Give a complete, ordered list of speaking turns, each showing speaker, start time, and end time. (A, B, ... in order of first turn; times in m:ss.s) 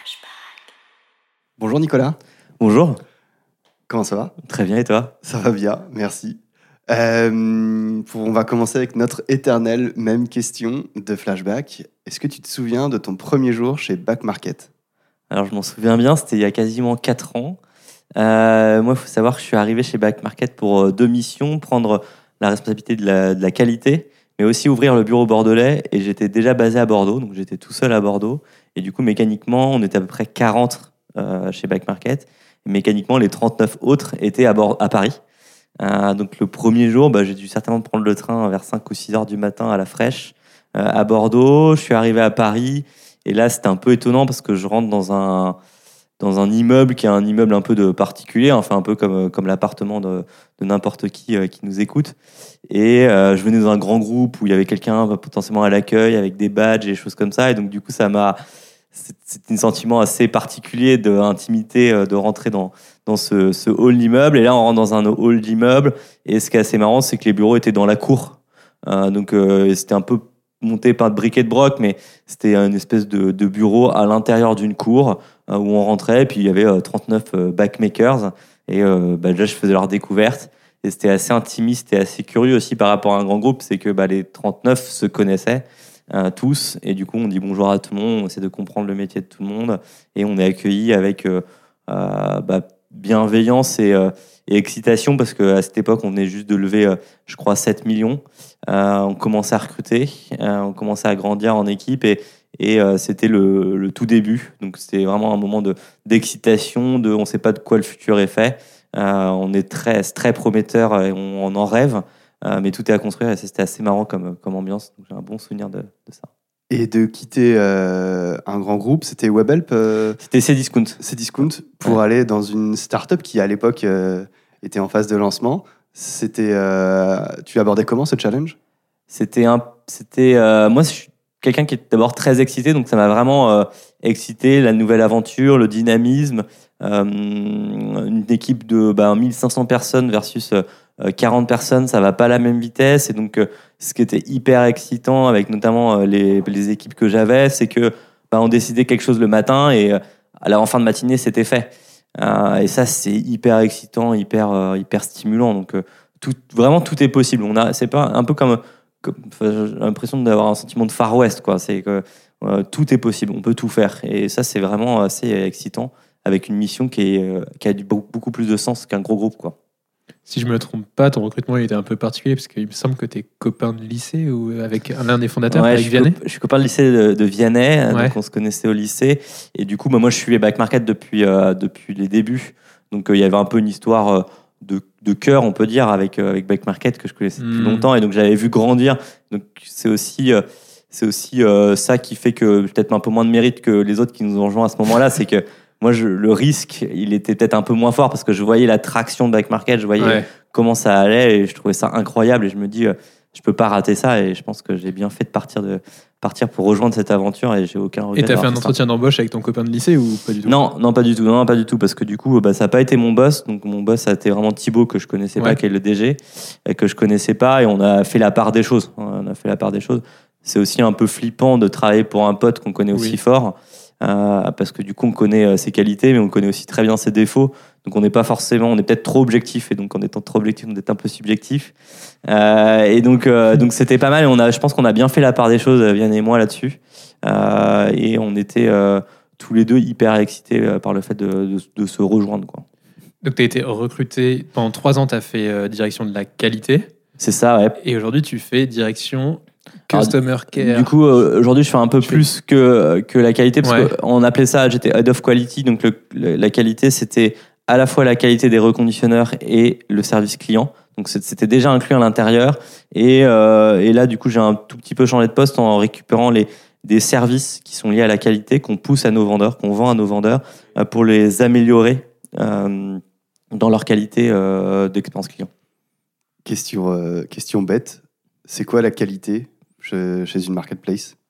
0:01.6-0:02.2 A
0:02.6-0:03.0 B
0:03.9-0:04.3 A
0:04.4-0:05.1 B
0:05.2-0:14.7 A
0:15.3-0:17.6 B
0:18.2-0:35.2 B
0:35.8-0:45.6 B
0:46.2-0:52.1 B
0:52.7-0:58.4 B
0:58.9-1:56.3 B
1:56.7-2:00.2 A
2:00.2-2:01.0 B
2:01.0-2:08.6 A
2:09.1-2:49.5 B
2:50.3-2:56.2 C
2:55.5-3:28.7 B
2:57.9-2:58.2 C
3:07.4-3:07.9 C
3:20.0-3:20.3 C
3:28.2-3:30.6 C
3:30.4-3:51.7 B
3:52.2-4:02.6 B
4:03.2-4:06.9 C
4:07.2-4:07.8 B
4:07.8-4:10.9 C
4:09.9-4:33.0 B
4:13.6-4:13.9 C
4:33.5-4:35.5 B
4:36.4-4:41.1 A